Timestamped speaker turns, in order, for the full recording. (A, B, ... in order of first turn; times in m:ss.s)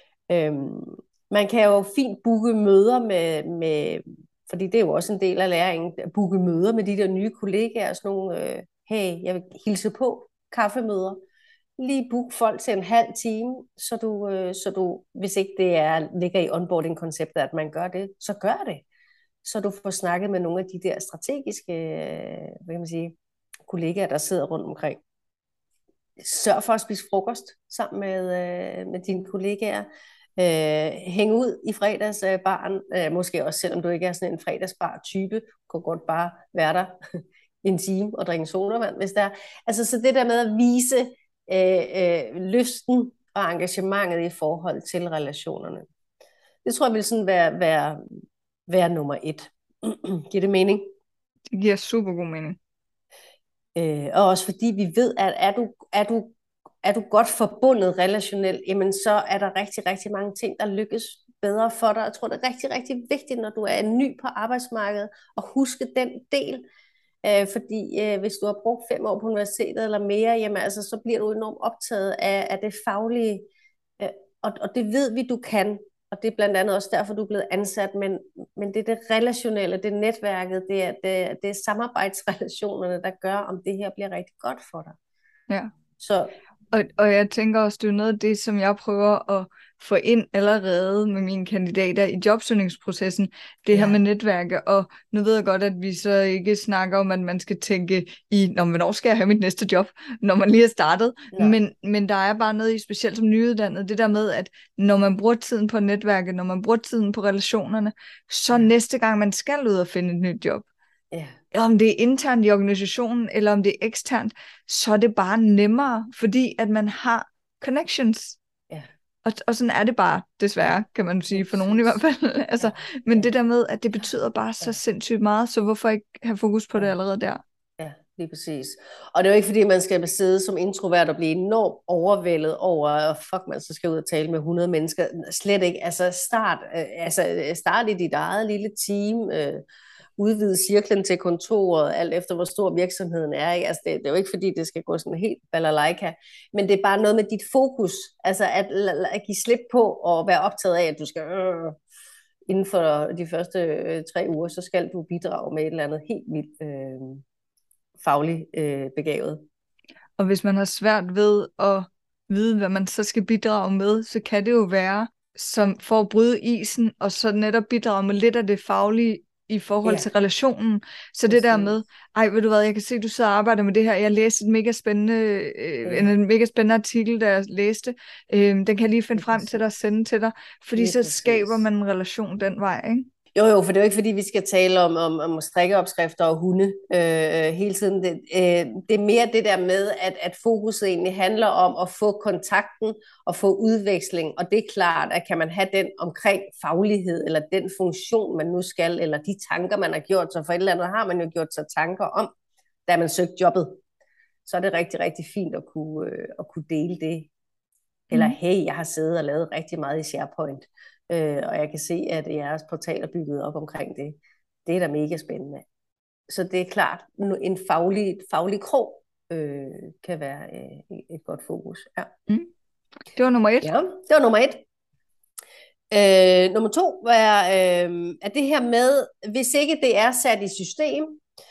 0:00.3-0:11.2 A
0:11.8-0:18.8 A
0:19.4-0:23.1 A
0:23.7-0:25.0 A
0:26.2-0:37.0 A
0:37.6-0:45.9 A
0:46.6-0:48.0 A
0:48.7-0:50.9 A
0:51.5-0:52.6 B
0:53.8-1:06.6 A
1:07.2-1:13.5 A
1:14.0-1:25.0 A
1:26.0-1:26.3 A
1:26.7-1:50.6 B
1:33.7-1:34.0 A
1:41.3-1:41.6 A
1:51.1-1:51.4 A
1:51.5-1:58.4 B
1:59.2-2:07.4 B
2:01.3-2:02.0 A
2:02.6-2:03.3 A
2:07.8-2:19.6 A
2:20.2-2:31.8 A
2:32.5-2:37.2 A
2:38.0-2:39.4 A
2:40.2-3:03.1 B
2:51.3-2:51.8 A
2:55.8-2:56.1 A
2:59.2-2:59.6 A
3:00.8-3:01.6 A
3:03.4-3:22.3 A
3:22.9-3:23.8 A
3:24.4-3:27.3 A
3:28.1-3:35.6 A
3:36.3-3:42.1 A
3:43.1-3:43.7 B
3:43.6-3:44.6 A
3:45.9-3:51.2 A